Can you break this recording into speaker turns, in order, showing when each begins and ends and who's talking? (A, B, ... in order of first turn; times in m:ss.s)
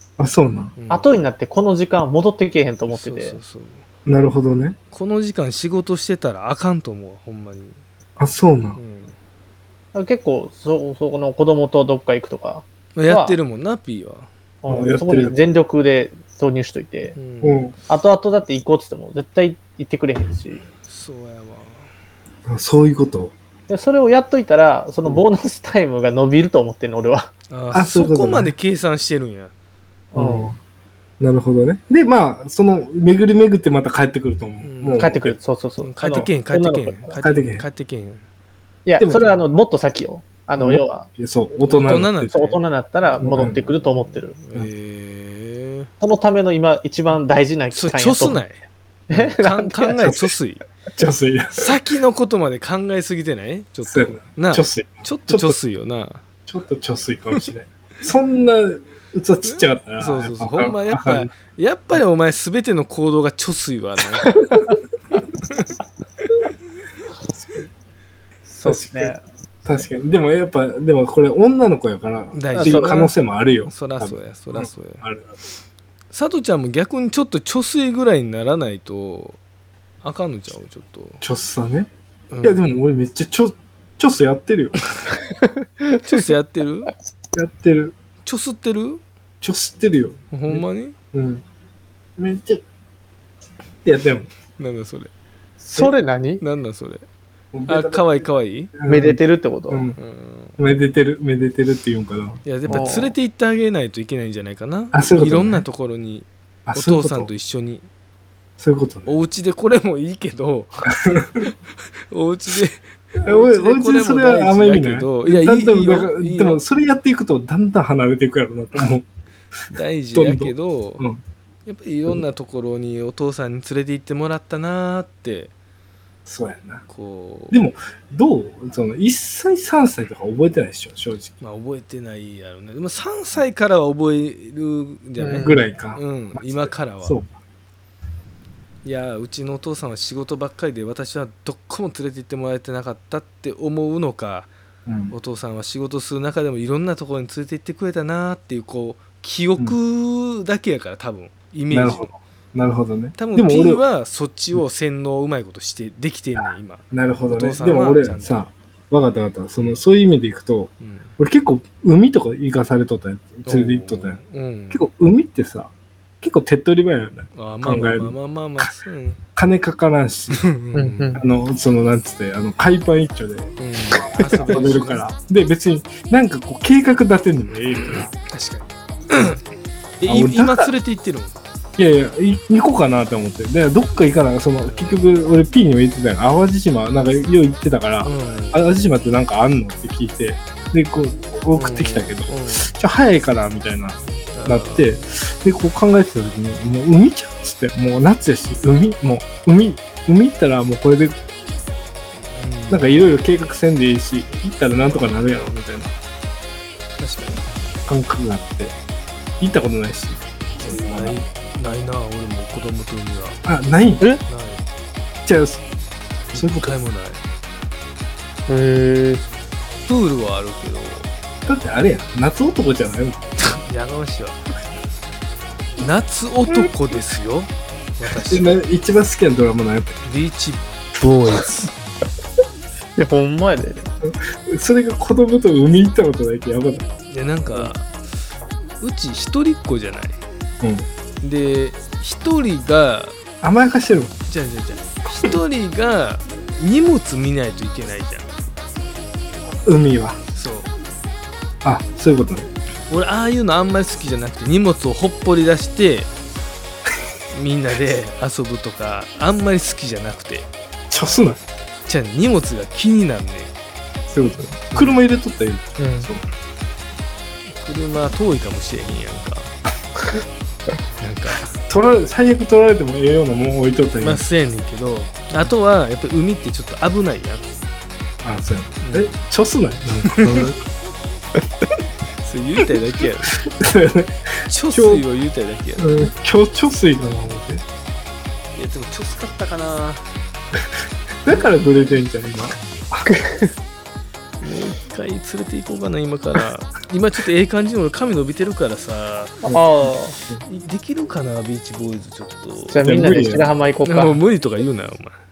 0:00.2-0:00.7 A
0:00.7-0:01.1 B
0:00.9-0:03.4 C
0:02.9-0:03.8 B
0:04.0-0:04.8 A
0:04.9-0:07.8 B
0:08.2-0:08.8 A
0:08.8-0:09.1 B
0:09.9-0:13.4 C
0:13.0-0:14.3 B
0:14.6-0:17.1 C
0:14.7-0:15.3 A
0:17.1-0:17.6 B
0:17.4-0:17.7 A
0:17.9-0:20.6 C
0:20.7-0:21.9 B
0:22.5-0:23.3 A
0:23.7-0:27.3 C
0:27.5-0:29.5 B
0:27.7-0:28.5 A
0:30.1-0:30.5 C
0:30.1-0:30.6 A
0:31.2-0:35.4 A
0:34.6-0:35.2 B
0:35.0-0:37.1 C
0:35.8-0:38.2 B
0:37.1-0:37.6 A
0:38.8-0:41.1 C
0:39.0-0:39.4 A
0:40.6-0:42.3 A
0:41.6-0:42.6 B
0:41.8-0:44.3 C
0:43.2-0:43.6 A
0:43.2-0:45.9 B
0:46.0-0:48.4 C
0:47.7-0:48.6 B
0:49.1-0:50.0 C
0:49.1-0:50.6 B
0:50.0-0:50.3 A
0:51.0-0:51.8 A
0:51.6-0:56.2 B
0:53.8-0:55.6 A
0:56.5-1:01.3 A
0:59.4-1:04.5 B
1:04.3-1:04.6 C
1:08.5-1:09.2 C
1:08.6-1:15.3 A
1:12.3-1:13.1 B
1:12.5-1:13.1 C
1:13.7-1:15.0 B
1:16.1-1:19.4 B
1:20.0-1:21.2 B
1:21.2-1:21.9 A
1:22.3-1:22.6 B
1:22.4-1:24.8 A
1:25.4-1:26.0 C
1:26.0-1:26.9 B
1:27.3-1:27.9 A
1:28.2-1:29.0 B
1:29.4-1:31.4 A
1:30.3-1:31.0 B
1:32.2-1:32.6 A
1:33.8-1:34.3 A
1:34.6-1:35.1 B
1:35.6-1:36.4 C
1:36.4-1:37.0 B
1:37.5-1:38.2 A
1:37.7-1:38.7 B
1:38.7-1:39.2 A
1:38.8-1:39.8 C
1:39.7-1:40.0 A
1:40.0-1:40.6 B
1:40.6-1:42.9 A
1:42.4-1:47.8 B
1:42.7-1:43.1 C
1:44.9-1:45.6 A
1:46.6-1:47.3 A
1:48.6-1:49.1 A
1:49.1-1:50.9 B
1:50.9-1:51.5 A
1:52.1-1:56.6 B
1:53.2-1:59.0 A
1:59.7-2:01.0 B
2:00.1-2:01.2 A
2:01.6-2:05.5 B
2:06.2-2:06.8 A
2:06.9-2:07.6 B
2:07.5-2:11.3 A
2:11.4-2:17.2 B
2:15.2-2:15.6 C
2:15.4-2:17.3 A
2:18.8-2:24.5 B
2:24.9-2:25.1 A
2:25.1-2:32.1 B
2:31.7-2:33.8 A
2:33.2-2:38.5 B
2:36.4-2:44.2 A
2:40.8-2:41.1 B
2:43.4-2:44.8 B
2:44.7-2:48.7 A
2:47.3-2:49.2 B
2:49.3-2:50.4 A
2:50.3-2:51.2 B
2:50.7-2:51.2 C
2:51.2-2:58.2 A
2:53.6-2:55.0 B
2:57.9-2:59.4 B
3:00.0-3:01.4 B
3:00.0-3:00.7 A
3:01.8-3:21.2 A
3:04.6-3:05.0 B
3:08.0-3:08.7 B
3:11.5-3:12.7 B
3:14.2-3:15.0 B
3:22.1-3:23.2 B
3:22.7-3:25.9 A
3:27.0-3:27.5 B
3:27.8-3:28.7 A
3:29.4-3:31.2 A
3:30.6-3:33.4 B
3:33.4-3:34.0 A
3:34.2-3:34.6 B
3:35.2-3:35.6 A
3:36.3-3:37.2 B
3:36.3-3:36.7 A
3:38.5-3:39.2 C
3:39.8-3:41.1 B
3:41.4-3:43.2 A
3:43.4-3:44.4 B
3:45.8-3:48.6 B
3:48.1-3:50.0 A
3:50.0-3:51.6 B
3:51.0-3:51.5 A
3:53.0-3:53.9 C
3:54.0-3:56.9 A
3:57.1-3:58.0 B
3:58.8-4:00.2 B
4:00.6-4:00.9 A
4:01.2-4:03.2 B
4:03.4-4:04.1 A
4:04.3-4:08.3 B
4:09.6-4:10.2 A
4:10.3-4:10.7 B
4:11.6-4:12.5 A
4:12.9-4:16.1 B
4:17.3-4:20.5 B
4:20.9-4:21.4 A
4:21.8-4:23.5 B
4:24.1-4:26.2 A
4:25.8-4:26.1 C
4:27.6-4:29.5 B
4:31.0-4:31.5 B
4:31.6-4:34.2 A
4:34.0-4:37.5 B
4:38.2-4:40.6 A
4:38.8-4:39.1 B
4:40.0-4:40.5 B
4:42.2-4:43.4 B
4:43.4-4:45.0 A
4:44.5-4:46.1 B
4:45.8-4:47.6 A
4:48.5-4:50.0 B
4:51.2-4:53.1 A
4:51.2-4:51.5 B
4:53.1-4:53.5 C
4:54.4-4:59.5 B
4:59.5-5:00.1 C
5:00.4-5:03.0 B
5:02.7-5:04.2 C
5:02.8-5:03.5 A
5:03.8-5:05.2 B